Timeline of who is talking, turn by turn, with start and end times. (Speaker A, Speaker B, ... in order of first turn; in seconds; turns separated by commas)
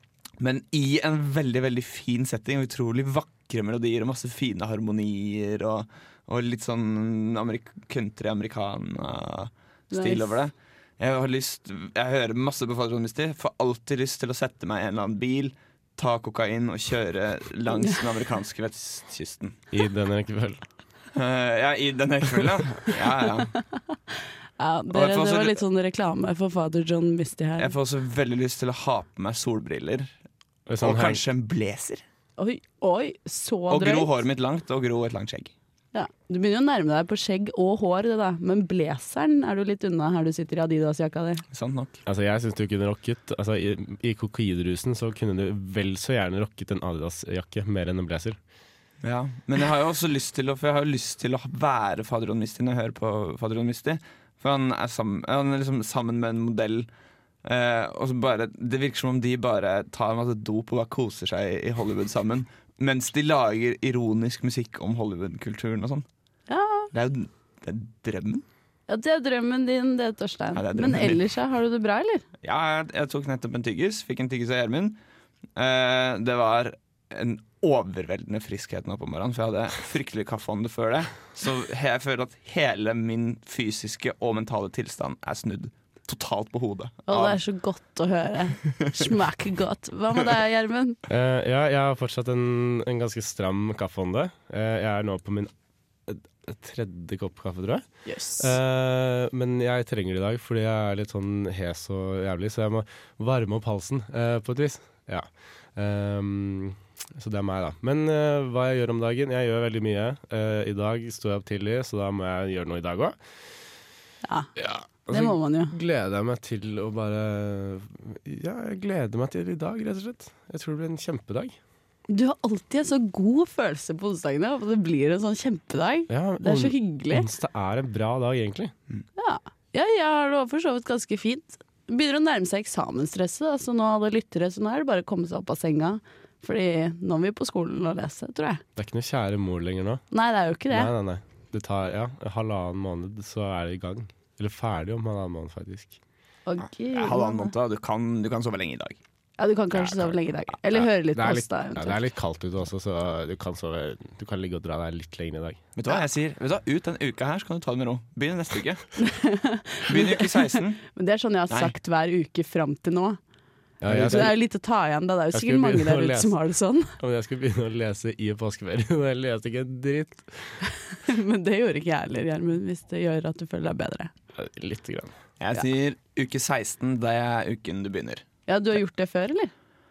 Speaker A: 0.4-19.6, Speaker B: 9.9-10.3, Speaker C: 19.7-20.6, Speaker A: 21.1-23.6, Speaker B: 24.6-27.7, Speaker A: 24.9-25.6, Speaker A: 27.6-30.1, Speaker C: 30.7-31.2, Speaker A: 30.8-32.0, Speaker B: 32.4-34.2, Speaker A: 33.7-35.5, Speaker B: 35.9-41.4, Speaker A: 41.5-42.0, Speaker C: 42.0-48.4, Speaker A: 49.0-56.9, Speaker A: 57.4-66.0, Speaker B: 66.5-66.9, Speaker A: 66.9-68.4, Speaker B: 68.9-72.2, Speaker A: 70.5-71.2, Speaker A: 72.4-75.0, Speaker A: 75.5-87.4, Speaker B: 87.1-91.0, Speaker C: 91.1-95.5, Speaker C: 96.1-97.9, Speaker B: 98.0-98.5, Speaker C: 98.4-113.2, Speaker C: 114.5-121.6, Speaker B: 115.1-115.7, Speaker B: 122.1-127.3, Speaker C: 126.1-128.7, Speaker B: 129.2-138.6, Speaker C: 138.8-140.0, Speaker B: 140.1-140.9, Speaker C: 140.7-146.0, Speaker B: 146.4-147.5, Speaker A: 146.9-149.0, Speaker B: 149.4-152.0, Speaker C: 151.1-155.6, Speaker A: 155.8-158.9, Speaker B: 159.0-163.2, Speaker A: 159.8-160.8, Speaker C: 163.8-164.3, Speaker A: 163.9-164.2, Speaker B: 163.9-166.9, Speaker C: 165.3-166.3, Speaker C: 167.0-170.6, Speaker B: 170.9-174.1, Speaker C: 174.3-175.1, Speaker A: 175.4-178.2, Speaker B: 178.5-179.5